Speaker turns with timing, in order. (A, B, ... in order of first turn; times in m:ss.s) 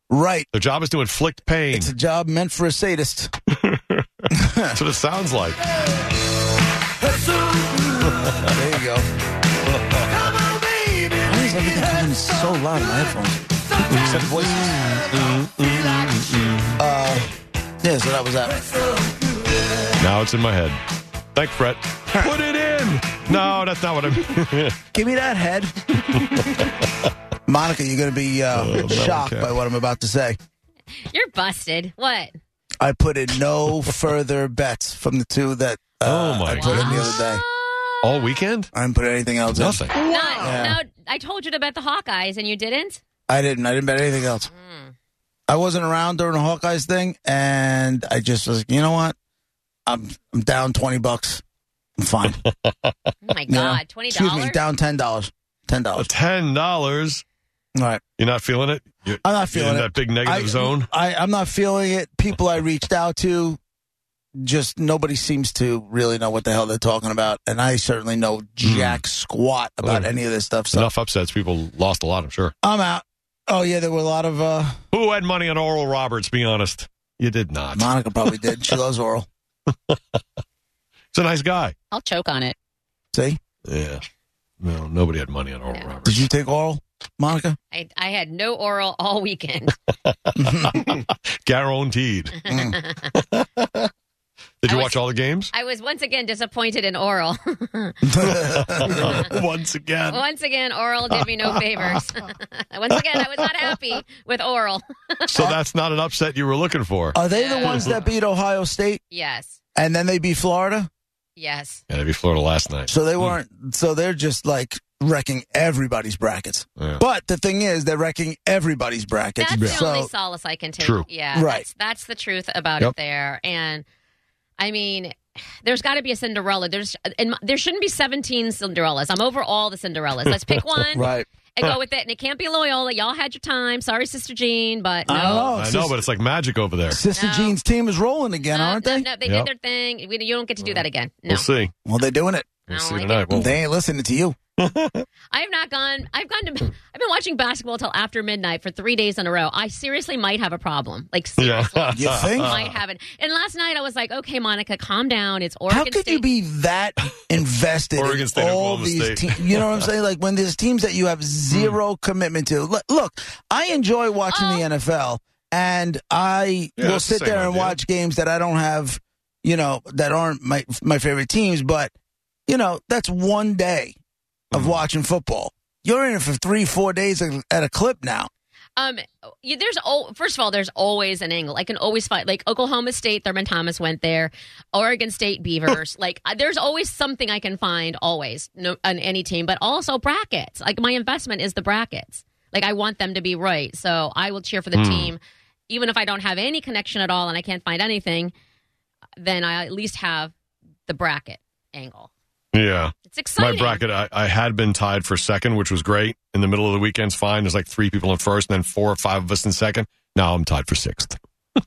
0:00.1-0:00.5 A
0:00.5-0:01.9 B
0:01.7-0:03.3 A
0:03.6-0:05.6 B
0:04.3-0:04.8 A
0:07.1-0:09.1 A
0:08.1-0:08.5 B
0:10.2-0:15.4 A
0:13.8-0:16.8 B
0:16.8-0:17.3 A
0:17.8-0:19.0 A
0:20.0-0:20.8 B
0:21.4-0:24.8 B
0:24.9-0:26.3 A
0:26.3-0:26.6 B
0:27.5-0:30.4 A
0:28.5-0:29.6 B
0:31.1-0:32.4 C
0:32.8-0:37.4 A
0:36.0-0:37.2 B
0:36.5-0:38.4 C
0:38.0-0:38.7 B
0:38.7-0:40.8 A
0:39.5-0:40.6 B
0:39.9-0:43.0 C
0:43.3-0:44.5 A
0:44.5-0:44.9 C
0:45.5-0:49.2 A
0:49.9-0:51.4 A
0:52.0-0:52.4 A
0:52.3-0:53.1 B
0:53.2-0:54.6 C
0:53.5-0:56.1 A
0:55.9-0:57.2 B
0:57.8-0:58.0 A
0:58.2-1:00.9 B
0:59.2-1:03.6 A
1:04.4-1:10.9 A
1:08.6-1:09.0 B
1:09.8-1:10.1 B
1:10.7-1:12.5 B
1:12.6-1:14.8 A
1:14.9-1:17.9 B
1:17.7-1:19.3 A
1:21.1-1:21.7 B
1:21.9-1:22.6 C
1:23.1-1:23.4 A
1:23.7-1:24.0 B
1:24.6-1:26.3 B
1:26.0-1:27.6 A
1:27.7-1:29.7 C
1:30.1-1:32.5 B
1:30.4-1:30.8 A
1:32.4-1:33.1 C
1:32.4-1:32.8 A
1:33.1-1:33.9 B
1:34.6-1:35.5 B
1:34.6-1:38.2 C
1:38.0-1:39.3 A
1:38.2-1:40.2 B
1:39.0-1:39.4 C
1:40.0-1:45.5 C
1:41.1-1:42.1 B
1:43.0-1:43.8 B
1:45.3-1:48.0 B
1:47.2-1:49.0 A
1:47.2-1:47.9 C
1:49.1-1:49.6 C
1:49.8-1:50.9 A
1:51.4-1:51.8 C
1:51.9-1:53.4 B
1:52.9-2:00.1 A
1:59.4-2:03.8 C
1:59.5-1:59.8 B
2:00.8-2:01.1 B
2:01.3-2:01.7 A
2:04.6-2:15.5 C
2:11.0-2:11.3 A
2:15.1-2:16.0 A
2:15.3-2:17.0 B
2:16.9-2:19.1 A
2:17.1-2:17.6 C
2:18.5-2:21.5 C
2:19.2-2:19.5 B
2:21.3-2:21.7 B
2:21.8-2:22.6 A
2:22.7-2:23.6 B
2:22.7-2:23.5 C
2:23.3-2:24.4 A
2:24.6-2:25.0 B
2:25.3-2:36.4 C
2:31.4-2:32.7 B
2:31.9-2:32.5 A
2:35.7-2:51.9 A
2:38.0-2:39.9 B
2:41.5-2:41.8 B
2:44.3-2:44.7 C
2:46.8-2:47.8 B
2:52.5-2:54.0 A
2:54.5-2:54.8 B
2:54.5-2:58.3 A
2:58.8-3:18.3 C
3:14.8-3:15.1 B
3:19.2-3:20.3 C
3:20.9-3:22.1 C
3:22.5-3:31.2 B
3:23.0-3:23.8 C